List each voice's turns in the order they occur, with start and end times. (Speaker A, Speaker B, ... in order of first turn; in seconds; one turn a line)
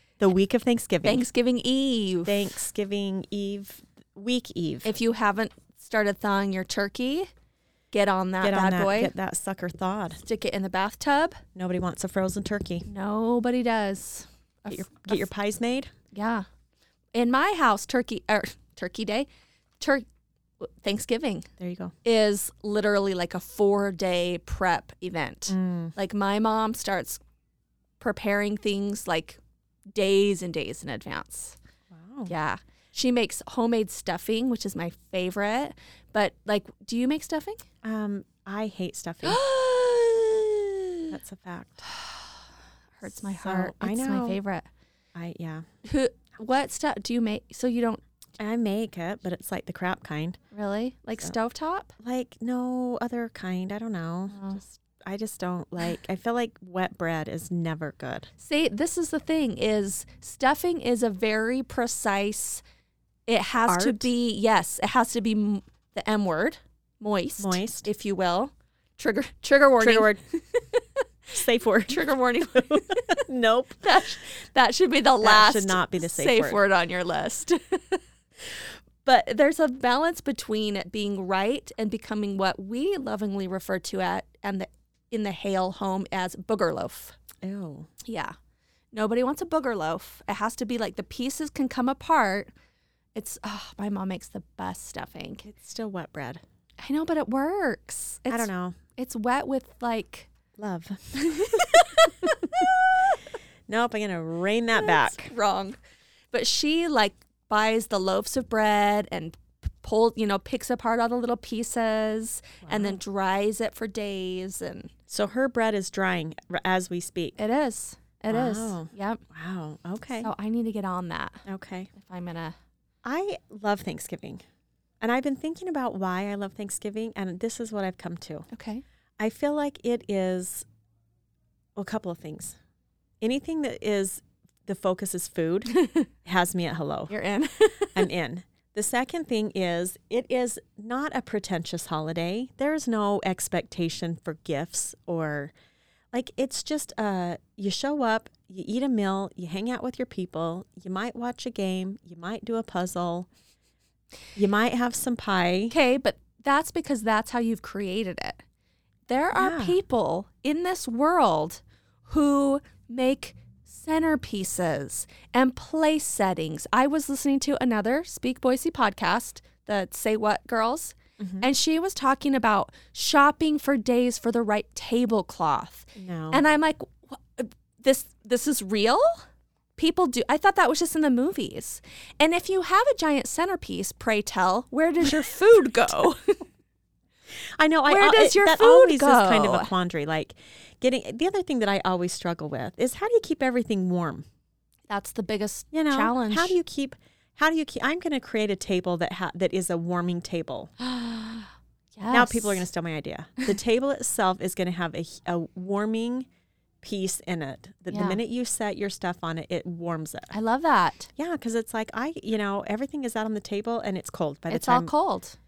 Speaker A: 0.2-1.2
Speaker B: 1.0-2.5
Speaker A: 2.2-4.9
Speaker B: 4.8-7.3
Speaker B: 7.9-9.1
Speaker A: 8.4-10.2
Speaker B: 10.2-11.4
Speaker A: 11.6-12.9
Speaker B: 12.9-15.2
Speaker A: 14.7-15.9
Speaker B: 16.1-16.5
Speaker B: 17.1-19.3
Speaker B: 19.8-20.1
Speaker B: 20.6-21.5
Speaker A: 21.6-21.9
Speaker B: 22.0-27.2
Speaker A: 25.5-25.9
Speaker B: 28.0-29.4
Speaker B: 29.9-31.6
Speaker A: 31.9-32.3
Speaker B: 32.3-37.6
Speaker A: 37.8-39.4
Speaker B: 39.2-41.1
Speaker A: 41.1-41.9
Speaker B: 41.9-42.3
Speaker B: 43.0-44.7
Speaker A: 43.2-44.4
Speaker A: 45.1-45.6
Speaker B: 45.8-48.0
Speaker A: 48.4-50.4
Speaker B: 50.5-51.9
Speaker A: 52.0-58.3
Speaker B: 54.3-54.6
Speaker B: 58.4-62.6
Speaker B: 63.3-70.8
Speaker A: 63.7-64.1
Speaker A: 67.4-67.9
Speaker A: 69.8-70.2
Speaker A: 71.3-74.1
Speaker B: 71.9-73.2
Speaker B: 73.8-78.0
Speaker A: 75.2-76.6
Speaker B: 79.0-87.2
Speaker A: 87.4-87.9
Speaker B: 88.0-88.3
Speaker B: 88.9-92.5
Speaker B: 93.2-95.5
Speaker A: 95.5-96.4
Speaker B: 96.8-100.3
Speaker A: 98.3-98.8
Speaker A: 100.6-102.7
Speaker B: 101.2-103.2
Speaker A: 103.7-105.3
Speaker B: 104.7-105.8
Speaker B: 106.3-114.9
Speaker A: 112.6-113.0
Speaker A: 115.1-117.4
Speaker B: 117.4-119.2
Speaker A: 118.3-120.3
Speaker B: 120.2-122.6
Speaker A: 121.5-121.9
Speaker A: 123.0-124.4
Speaker A: 125.0-128.5
Speaker B: 128.5-128.8
Speaker A: 129.2-130.7
Speaker A: 131.8-132.6
Speaker A: 133.2-137.1
Speaker B: 135.8-136.1
Speaker B: 137.1-138.0
Speaker A: 137.9-145.5
Speaker A: 146.1-153.3
Speaker A: 154.3-155.8
Speaker B: 155.7-158.4
Speaker B: 159.1-179.2
Speaker A: 159.3-159.8
Speaker A: 171.2-171.5
Speaker A: 176.0-176.4
Speaker B: 179.8-186.4
Speaker A: 187.6-194.2
Speaker B: 187.9-189.7
Speaker B: 194.9-196.6
Speaker A: 195.7-200.7
Speaker B: 200.8-202.7
Speaker A: 202.1-206.3
Speaker A: 206.8-210.3
Speaker B: 207.9-208.2
Speaker B: 210.3-211.1
Speaker A: 211.2-214.9
Speaker B: 214.5-215.4